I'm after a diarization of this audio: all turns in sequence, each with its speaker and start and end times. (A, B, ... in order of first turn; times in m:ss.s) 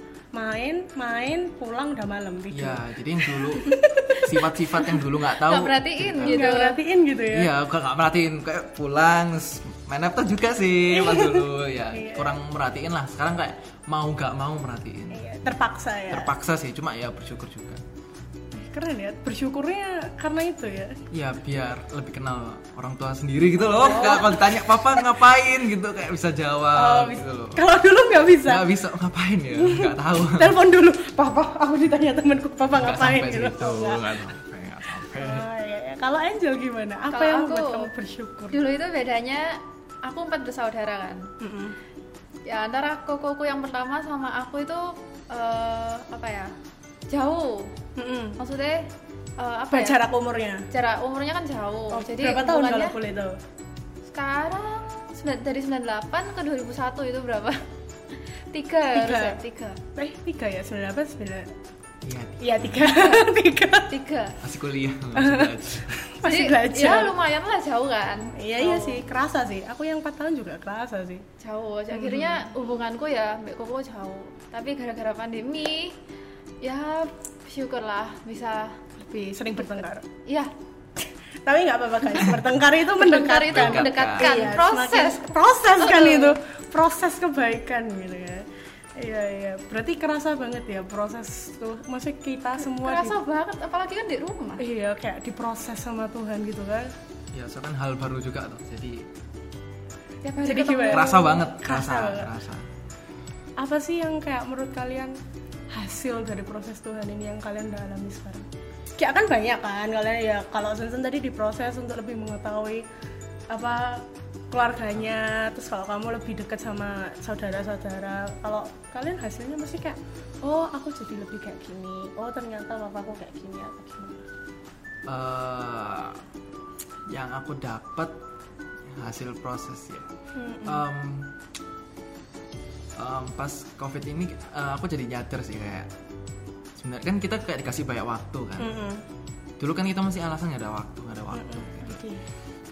0:00.3-0:05.0 A
0:02.5-0:06.4 B
0:05.4-0:06.8 C
0:06.2-0:07.5 A
0:07.3-0:15.2 B
0:10.9-0:12.4 A
0:15.1-0:16.4 A
0:16.1-0:17.8 B
0:18.5-0:21.0 A
0:21.1-0:27.6 B
0:23.6-0:25.0 A
0:26.7-0:28.7 A
0:28.4-0:30.6 B
0:29.6-0:34.1 A
0:32.7-0:35.5 B
0:35.1-0:38.6 A
0:37.1-0:37.9 C
0:38.5-0:41.2 C
0:41.4-0:41.8 A
0:42.4-0:46.5 C
0:47.1-0:47.7 C
0:48.0-0:48.4 A
0:48.4-0:50.0 C
0:49.7-0:50.7 A
0:50.7-0:53.0 C
0:51.9-0:53.4 A
0:54.1-0:57.6 C
0:58.5-0:59.8 C
0:58.9-0:59.4 A
1:00.0-1:01.5 A
1:02.0-1:03.0 B
1:02.4-1:04.0 A
1:03.9-1:04.4 C
1:04.4-1:06.0 B
1:05.2-1:07.2 A
1:06.2-1:09.0 C
1:08.4-1:11.2 A
1:11.4-1:16.0 C
1:11.9-1:12.5 A
1:16.6-1:18.8 C
1:19.0-1:20.1 A
1:19.6-1:20.5 C
1:21.4-1:33.2 A
1:23.0-1:26.4 C
1:23.5-1:24.4 B
1:32.6-1:34.6 C
1:34.6-1:36.9 A
1:37.3-1:39.1 B
1:40.2-1:41.5 C
1:40.4-1:42.3 A
1:40.9-1:42.7 B
1:43.6-1:45.2 A
1:45.7-1:52.9 A
1:53.5-2:04.3 A
2:05.1-2:06.2 B
2:07.1-2:08.2 B
2:09.0-2:10.1 B
2:10.4-2:10.8 A
2:10.6-2:11.3 B
2:13.0-2:15.9 B
2:16.8-2:18.8 B
2:18.6-2:19.0 A
2:19.6-2:22.0 B
2:21.3-2:22.2 A